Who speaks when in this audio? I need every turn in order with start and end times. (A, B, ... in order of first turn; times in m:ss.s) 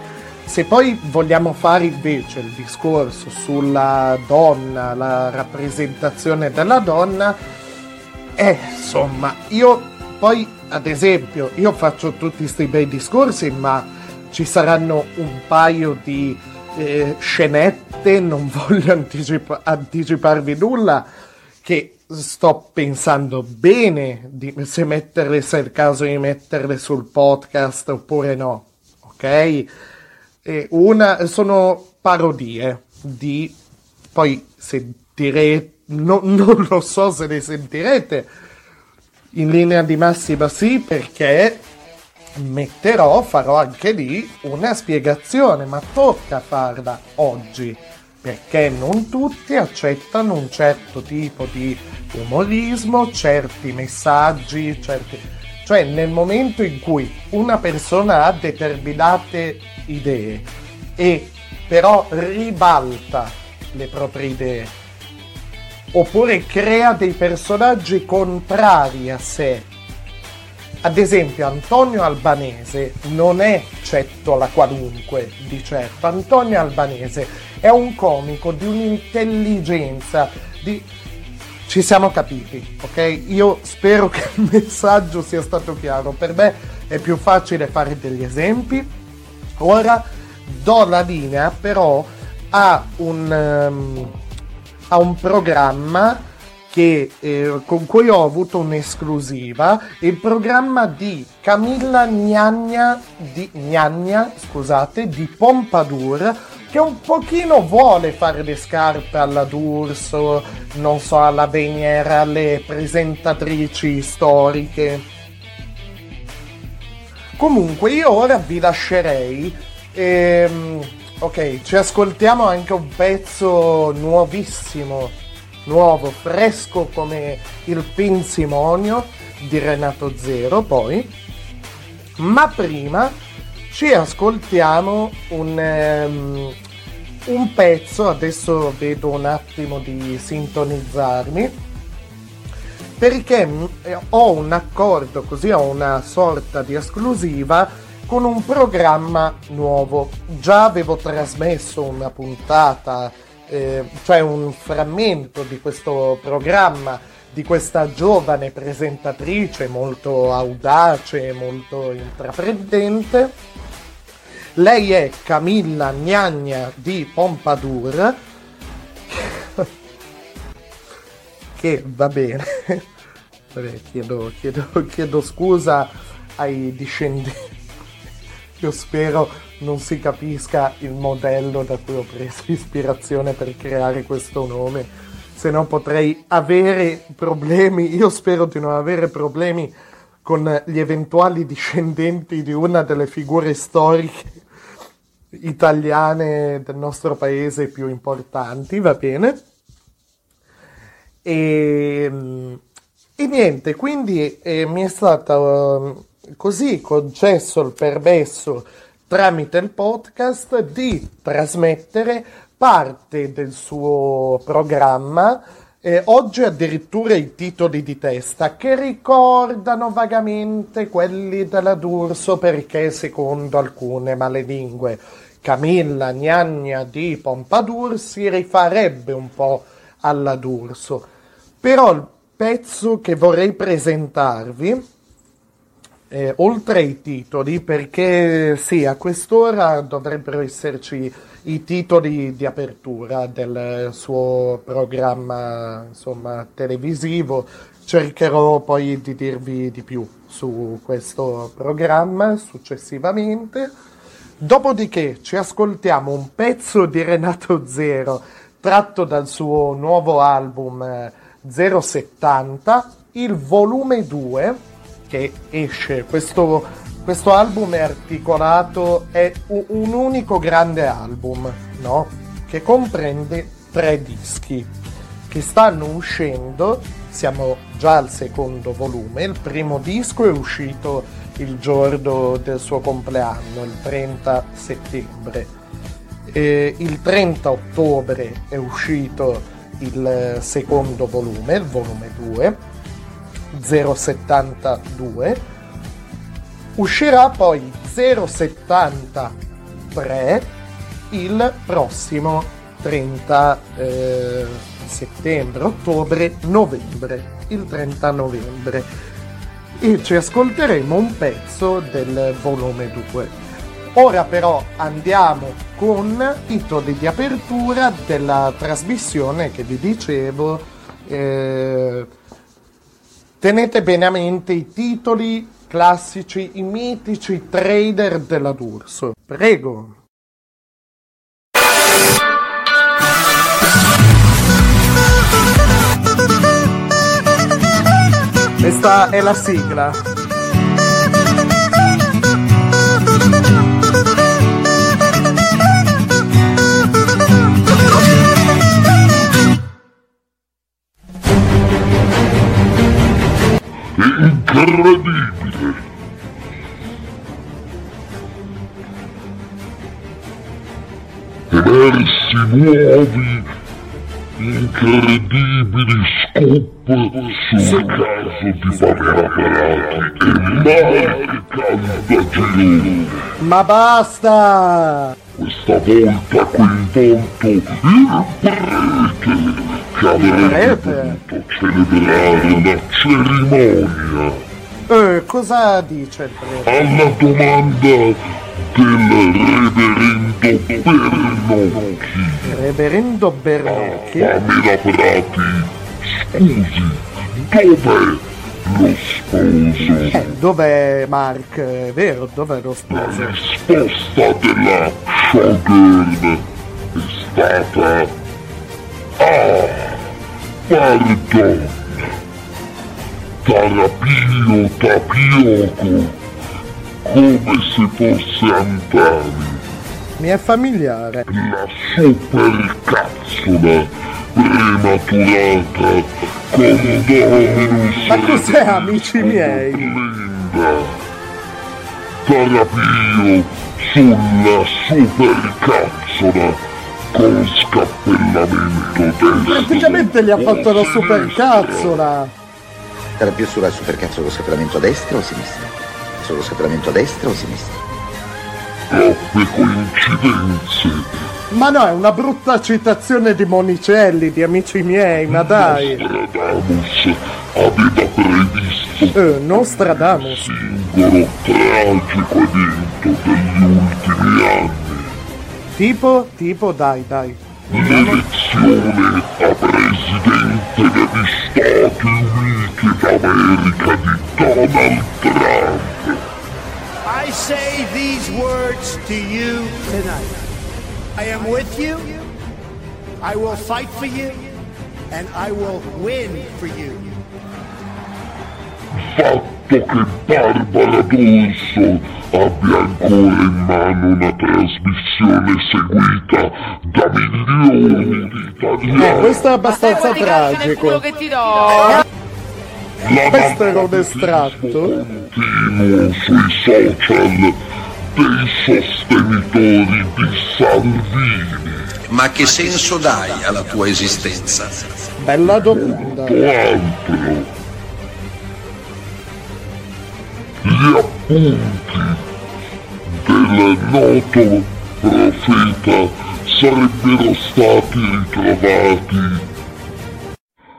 0:00.4-0:07.4 A
0:08.4-0:21.0 A
0:21.6-0:29.7 A
0:30.4-0:33.5 A
0:34.1-0:38.3 A
0:39.3-0:41.6 A
0:42.4-1:04.7 A
1:05.9-1:09.7 A
1:10.8-1:20.8 A
1:21.7-1:28.9 A
1:29.6-1:34.1 A
1:34.9-1:55.0 A
1:57.4-2:05.1 A
2:05.6-2:11.1 A
2:12.2-2:13.1 A
2:13.7-2:16.6 A
2:17.2-2:21.5 A
2:23.0-2:43.3 A
2:44.6-2:48.2 A
2:49.1-2:49.7 A
2:51.6-2:52.8 A
2:53.5-2:57.4 A
2:58.6-3:09.7 A
3:10.2-3:14.4 A
3:15.3-3:19.4 A
3:21.2-3:22.6 A
3:23.2-3:51.1 A
3:51.6-3:54.8 A
3:56.1-4:13.7 A
4:14.4-4:34.7 A
4:35.3-4:45.5 A
4:46.3-4:52.6 A
4:53.5-4:55.4 A
4:56.8-4:59.3 A
4:59.9-5:00.5 A
5:01.1-5:08.9 A
5:09.8-5:13.3 A
5:13.9-5:22.1 A
5:23.4-5:30.0 A
5:38.6-5:40.0 A
5:54.0-5:55.8 B
6:01.5-6:03.5 B
6:04.4-6:13.1 B
6:07.6-6:08.0 A
6:08.7-6:09.2 A
6:13.4-6:15.1 A
6:15.3-6:24.4 B
6:20.2-6:21.2 A
6:24.9-6:27.1 A
6:26.6-6:32.5 B
6:32.4-6:34.4 A
6:33.6-6:40.4 B
6:40.0-6:43.4 A
6:42.9-6:48.1 B
6:49.2-6:50.0 B
6:50.7-6:52.1 B
6:53.4-6:56.2 B
6:57.0-6:59.6 B
7:00.2-7:01.2 A
7:01.3-7:10.9 B
7:08.0-7:10.0 A
7:12.2-7:16.6 B
7:17.1-7:22.0 B
7:19.4-7:22.3 A
7:23.2-7:27.8 C
7:28.9-7:31.0 B
7:31.5-7:36.0 A
7:35.3-7:39.2 B
7:39.1-7:40.6 A
7:39.8-7:45.2 B
7:45.8-7:48.2 A
7:47.7-7:56.2 B
7:57.0-8:00.4 D
8:01.2-8:02.3 D
8:03.2-8:04.6 D
8:05.1-8:07.2 D
8:09.0-8:19.4 B
8:19.0-8:21.1 A
8:23.0-8:27.6 B
8:23.3-8:25.0 A
8:28.1-8:31.9 B
8:32.1-8:34.8 E
8:35.2-8:36.4 A
8:35.4-8:37.5 B
8:40.6-8:42.2 B
8:43.1-8:49.4 B